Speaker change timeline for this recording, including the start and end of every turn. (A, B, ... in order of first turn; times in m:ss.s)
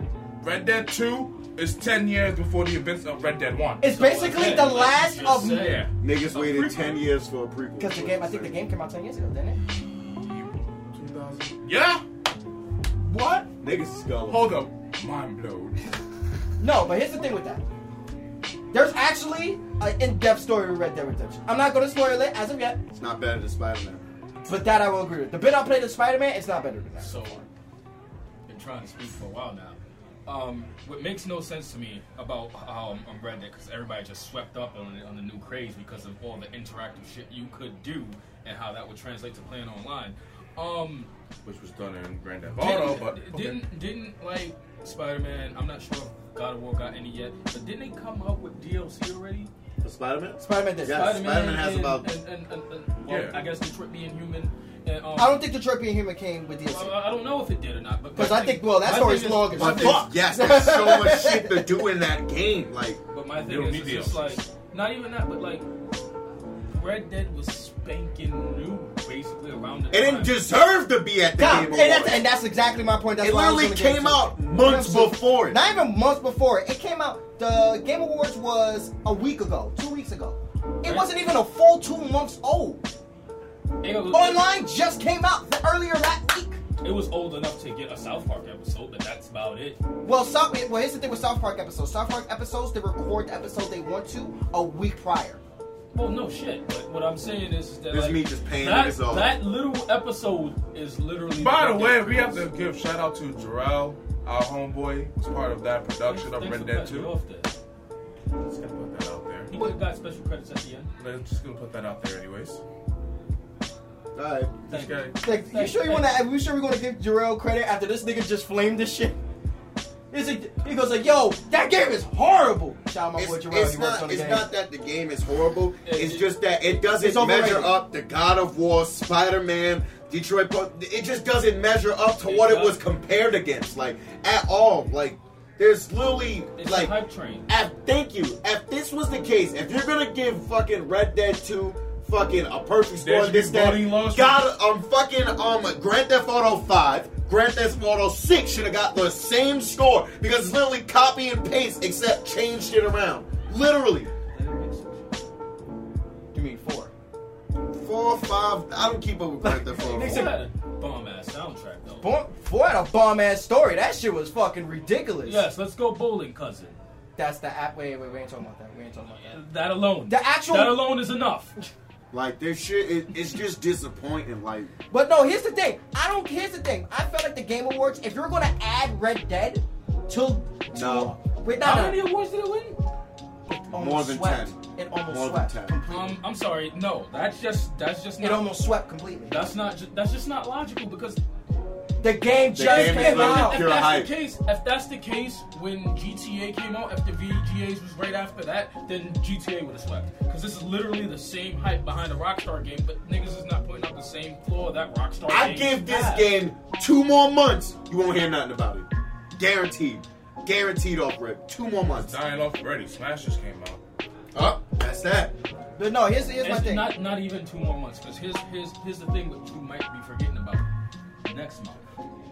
0:00.4-0:03.8 A
0:03.8-0:05.8 B
0:03.9-0:07.0 C
0:06.0-0:08.6 D
0:07.8-0:09.6 B
0:09.7-0:12.0 A
0:13.0-0:13.5 A
0:13.6-0:14.6 D
0:14.3-0:15.9 A
0:16.6-0:17.6 B
0:18.7-0:22.8 B
0:22.9-0:24.0 D
0:24.5-0:27.4 B
0:27.0-0:27.5 C
0:28.5-0:41.1 C
0:41.4-0:43.6 A
0:42.6-0:49.5 C
0:49.8-0:52.1 D
0:50.4-0:51.1 B
0:50.9-0:55.5 C
0:53.1-0:53.4 A
0:55.2-0:57.0 B
0:56.7-1:00.1 C
0:58.2-1:01.7 B
0:59.5-1:03.0 D
1:03.1-1:05.7 C
1:03.4-1:04.4 A
1:06.7-1:10.4 C
1:09.9-1:12.3 D
1:11.4-1:22.9 B
1:13.2-1:15.6 D
1:20.8-1:21.1 C
1:23.8-1:24.5 C
1:24.1-1:26.6 B
1:26.8-1:29.8 C
1:30.0-1:35.4 B
1:35.9-1:42.5 C
1:37.9-1:39.4 D
1:41.4-1:47.1 A
1:46.0-1:47.5 C
1:48.4-1:49.5 A
1:49.5-1:50.9 C
1:51.0-1:52.6 A
1:54.2-1:54.6 D
1:54.7-1:56.2 C
1:54.7-1:55.2 A
1:55.2-1:59.2 B
2:00.1-2:04.5 B
2:03.2-2:17.0 D
2:05.8-2:06.3 C
2:06.9-2:07.8 B
2:12.2-2:12.8 C
2:16.6-2:17.5 C
2:17.5-2:34.1 D
2:23.0-2:24.4 A
2:34.3-2:35.2 C
2:36.3-2:36.9 B
2:37.7-2:40.3 D
2:39.4-2:40.4 B
2:39.8-2:42.1 C
2:42.0-2:45.5 B
2:45.2-2:46.8 C
2:47.2-2:49.4 B
2:49.1-2:51.5 C
2:50.1-2:50.9 B
2:52.1-2:54.7 D
2:54.9-3:02.0 B
3:00.7-3:01.2 D
3:01.6-3:02.8 C
3:03.5-3:06.2 B
3:03.7-3:05.8 D
3:05.9-3:08.5 C
3:08.2-3:09.4 B
3:09.3-3:11.2 C
3:12.0-3:13.8 B
3:12.5-3:14.1 D
3:12.6-3:26.3 C
3:25.3-3:32.2 D
3:31.9-3:33.8 A
3:34.4-3:35.3 D
3:35.8-3:36.9 B
3:36.4-3:40.6 C
3:41.2-3:41.8 C